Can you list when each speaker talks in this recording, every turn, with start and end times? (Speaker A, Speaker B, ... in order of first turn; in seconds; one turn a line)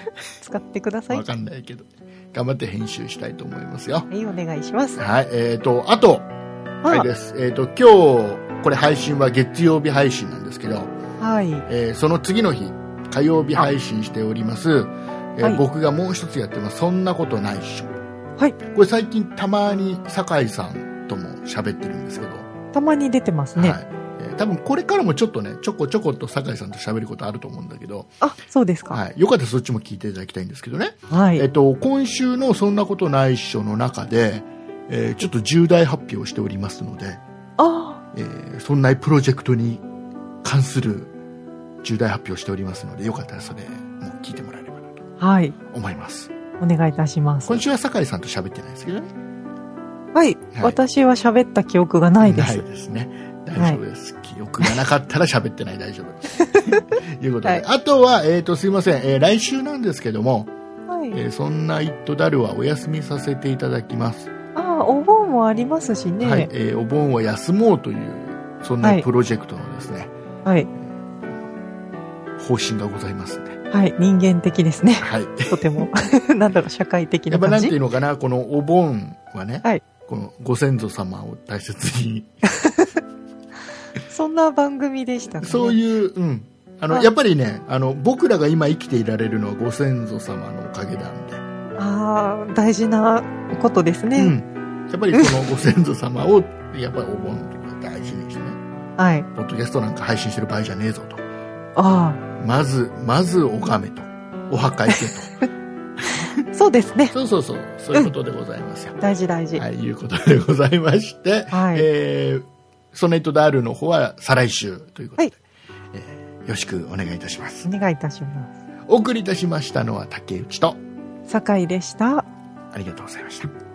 Speaker A: 0.4-1.2
Speaker B: 1.1-4.1
Speaker A: 4.1-5.0
Speaker B: 5.0-6.3
Speaker B: 6.9-10.9
Speaker A: 11.2-11.7
Speaker B: 11.7-17.9
Speaker B: 18.7-22.5
Speaker A: 22.7-23.8
Speaker B: 23.6-28.1
Speaker A: 28.2-29.0
Speaker B: 28.9-37.2
Speaker A: 31.1-31.4
Speaker A: 37.6-38.0
Speaker B: 38.1-39.8
Speaker B: 40.4-41.1
Speaker B: 41.8-45.0
Speaker A: 45.2-45.5
Speaker B: 45.7-46.3
Speaker A: 46.6-47.6
Speaker B: 47.4-49.1
Speaker A: 50.1-52.6
Speaker B: 52.2-60.5
Speaker A: 56.4-56.9
Speaker A: 60.9-61.2
Speaker B: 61.1-64.3
Speaker A: 64.5-66.5
Speaker B: 66.2-70.1
Speaker B: 72.4-73.6
Speaker A: 73.7-77.7
Speaker B: 75.0-75.8
Speaker B: 77.3-82.3
Speaker A: 82.5-82.9
Speaker A: 84.1-85.8
Speaker B: 85.4-91.4
Speaker A: 91.8-94.3
Speaker B: 94.2-98.6
Speaker A: 99.0-99.3
Speaker B: 99.3-101.2
Speaker A: 101.8-102.2
Speaker B: 102.4-105.4
Speaker A: 106.5-107.1
Speaker B: 107.1-109.0
Speaker A: 109.0-109.6
Speaker B: 109.5-115.4
Speaker A: 111.5-111.9
Speaker B: 115.9-117.7
Speaker A: 117.6-118.5
Speaker B: 118.9-120.8
Speaker A: 121.3-122.3
Speaker B: 122.7-123.5